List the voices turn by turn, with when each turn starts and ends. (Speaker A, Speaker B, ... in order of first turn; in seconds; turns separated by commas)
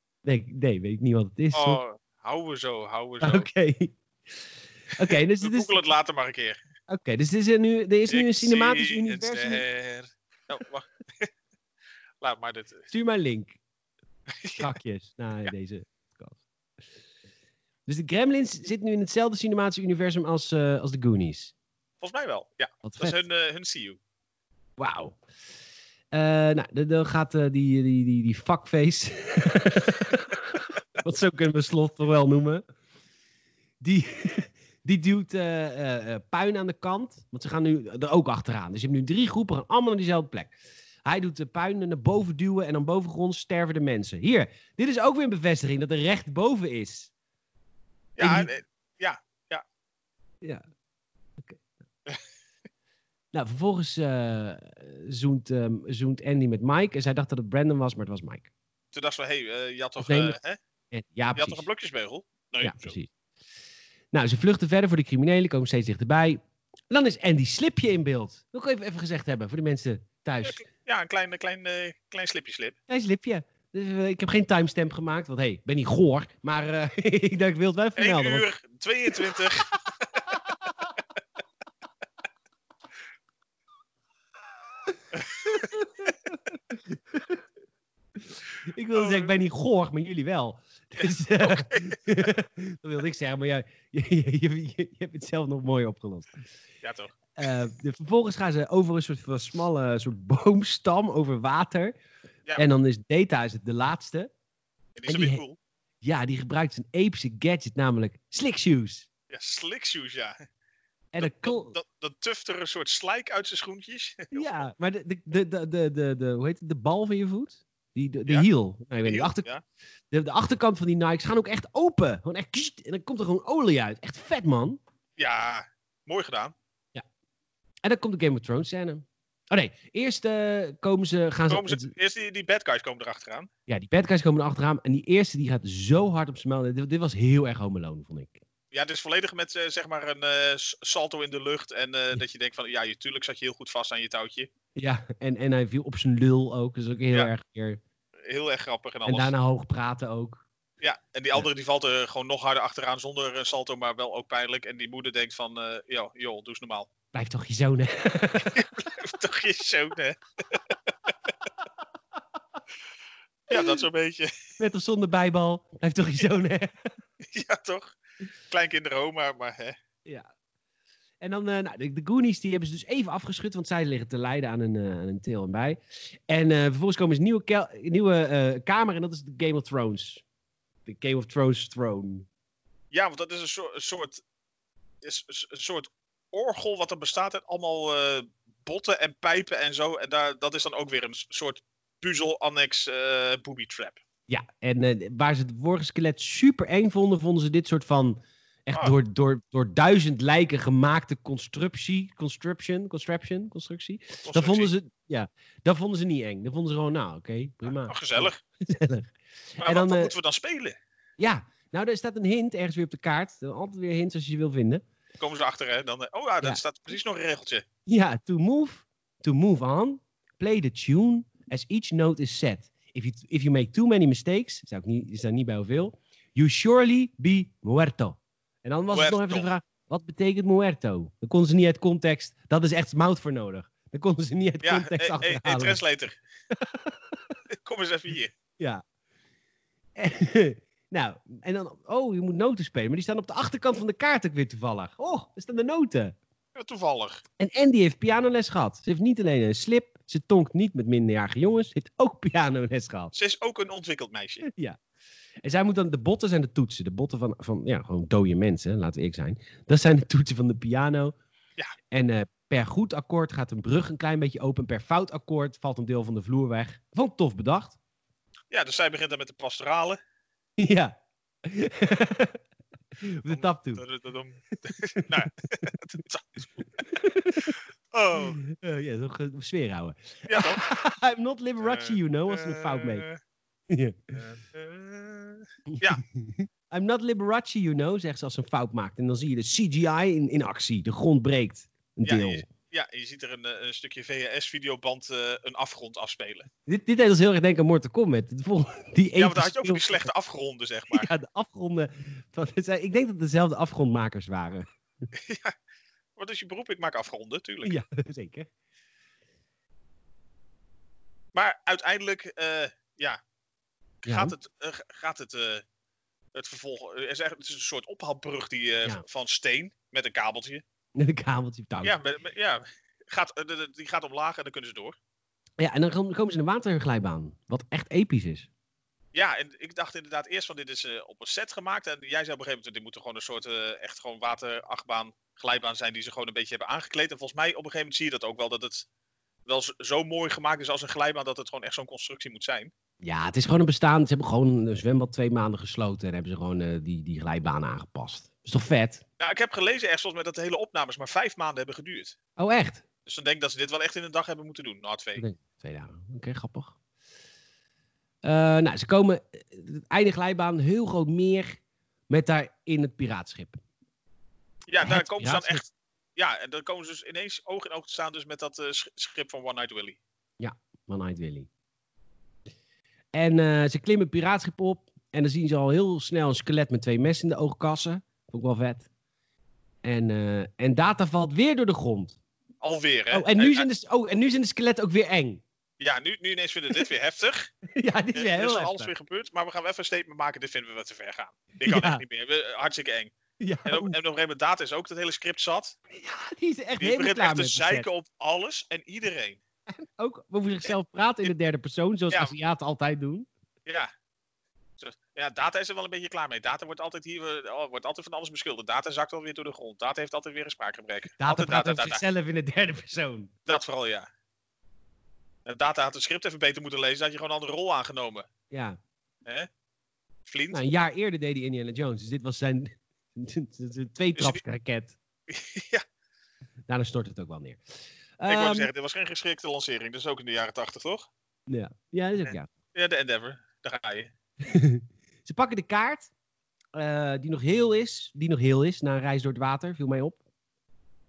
Speaker A: 0.2-1.8, Speaker B: 1.5-3.5, Speaker A: 3.2-4.0, Speaker A: 5.0-5.8, Speaker B: 5.0-6.6, Speaker A: 6.9-9.6, Speaker B: 8.1-11.3, Speaker B: 12.2-12.9, Speaker A: 12.9-13.6, Speaker B: 14.4-14.7, Speaker A: 14.6-16.4, Speaker A: 17.9-21.5, Speaker B: 22.0-24.0, Speaker A: 22.8-23.1, Speaker A: 24.8-25.2, Speaker A: 26.1-32.6, Speaker A: 33.8-47.1, Speaker B: 48.2-49.6, Speaker A: 48.2-48.5, Speaker A: 53.3-58.5, Speaker B: 58.9-60.6, Speaker A: 60.0-60.4, Speaker A: 60.9-61.6, Speaker B: 61.4-63.0, Speaker A: 62.6-63.1, Speaker A: 64.1-70.6, Speaker B: 70.4-72.8, Speaker A: 72.9-78.5, Speaker B: 78.0-80.2, Speaker A: 80.3-80.8, Speaker B: 85.1-85.8, Speaker A: 85.4-87.4, Speaker A: 88.2-96.3, Speaker B: 88.9-89.3, Speaker B: 91.0-92.3, Speaker B: 96.8-97.2, Speaker A: 97.4-101.9, Speaker A: 102.5-104.3, Speaker B: 105.0-105.6, Speaker A: 105.1-105.4, Speaker A: 106.0-109.1, Speaker B: 109.3-110.3, Speaker A: 111.1-111.7, Speaker B: 111.2-114.7, Speaker A: 114.3-119.5, Speaker B: 119.0-119.6, Speaker A: 120.1-124.8, Speaker B: 125.2-126.5, Speaker A: 127.8-131.9, Speaker B: 131.5-133.5, Speaker A: 133.7-138.4, Speaker B: 138.7-144.5, Speaker A: 144.7-147.8, Speaker B: 148.3-149.3, Speaker A: 149.0-150.4, Speaker B: 150.8-156.9, Speaker A: 157.1-158.7, Speaker B: 158.4-161.1, Speaker B: 163.5-164.3, Speaker A: 163.5-163.8, Speaker A: 164.6-166.9, Speaker B: 167.2-167.9, Speaker B: 168.5-169.8, Speaker A: 171.2-180.2, Speaker A: 180.8-182.3, Speaker B: 182.9-184.2, Speaker B: 185.0-194.0, Speaker A: 194.3-210.1, Speaker B: 204.2-204.7, Speaker B: 207.6-208.4, Speaker B: 209.6-210.8, Speaker A: 211.2-214.8, Speaker B: 215.2-217.6, Speaker A: 217.8-235.8, Speaker B: 228.9-229.5, Speaker B: 234.6-236.2, Speaker A: 236.5-237.2, Speaker B: 237.5-238.3, Speaker A: 239.9-246.2, Speaker B: 246.5-247.2, Speaker A: 247.4-253.1, Speaker B: 253.1-254.5, Speaker A: 254.4-254.8, Speaker A: 255.4-261.1, Speaker A: 261.9-267.8, Speaker B: 268.5-270.0, Speaker A: 270.6-272.4, Speaker A: 273.0-273.8, Speaker B: 273.3-276.8, Speaker A: 276.9-277.6, Speaker B: 277.4-278.4, Speaker A: 278.1-283.0, Speaker B: 280.3-280.6, Speaker B: 281.6-283.2, Speaker A: 283.7-284.1, Speaker B: 284.1-286.0, Speaker A: 286.0-292.4, Speaker B: 292.0-296.5, Speaker A: 296.6-300.1, Speaker B: 299.1-301.1, Speaker A: 300.9-304.6, Speaker B: 305.1-305.5, Speaker B: 306.1-307.8, Speaker A: 307.6-308.5, Speaker B: 311.3-313.2, Speaker B: 314.0-315.6, Speaker A: 314.1-314.3, Speaker B: 316.3-320.6, Speaker A: 320.9-321.9, Speaker B: 321.8-325.0, Speaker A: 325.6-328.5, Speaker B: 329.1-338.9, Speaker B: 339.4-342.7, Speaker A: 343.0-349.0, Speaker B: 349.2-352.2, Speaker A: 352.4-352.8, Speaker B: 353.1-355.2, Speaker A: 355.2-356.8, Speaker A: 358.2-363.6, Speaker B: 364.7-370.0, Speaker A: 364.8-365.6, Speaker A: 370.4-371.5, Speaker A: 373.1-378.9, Speaker A: 379.8-382.1, Speaker B: 382.6-383.7, Speaker A: 383.1-385.4, Speaker B: 385.8-387.5, Speaker A: 387.7-388.9, Speaker B: 388.1-393.1, Speaker A: 391.6-392.0, Speaker A: 393.4-393.9, Speaker B: 393.6-395.8, Speaker A: 395.9-397.9, Speaker B: 396.8-399.4, Speaker A: 399.7-403.3, Speaker B: 403.6-403.9, Speaker B: 404.8-412.0, Speaker A: 411.2-413.3, Speaker B: 413.4-414.1, Speaker B: 415.4-418.3, Speaker A: 418.5-418.8, Speaker B: 420.3-420.6, Speaker A: 420.5-425.0, Speaker B: 424.1-424.4, Speaker B: 425.3-425.8, Speaker A: 426.7-427.6, Speaker A: 428.2-428.7, Speaker B: 428.3-431.1, Speaker A: 431.5-432.5, Speaker B: 432.2-434.1, Speaker A: 434.4-436.1, Speaker A: 436.7-440.2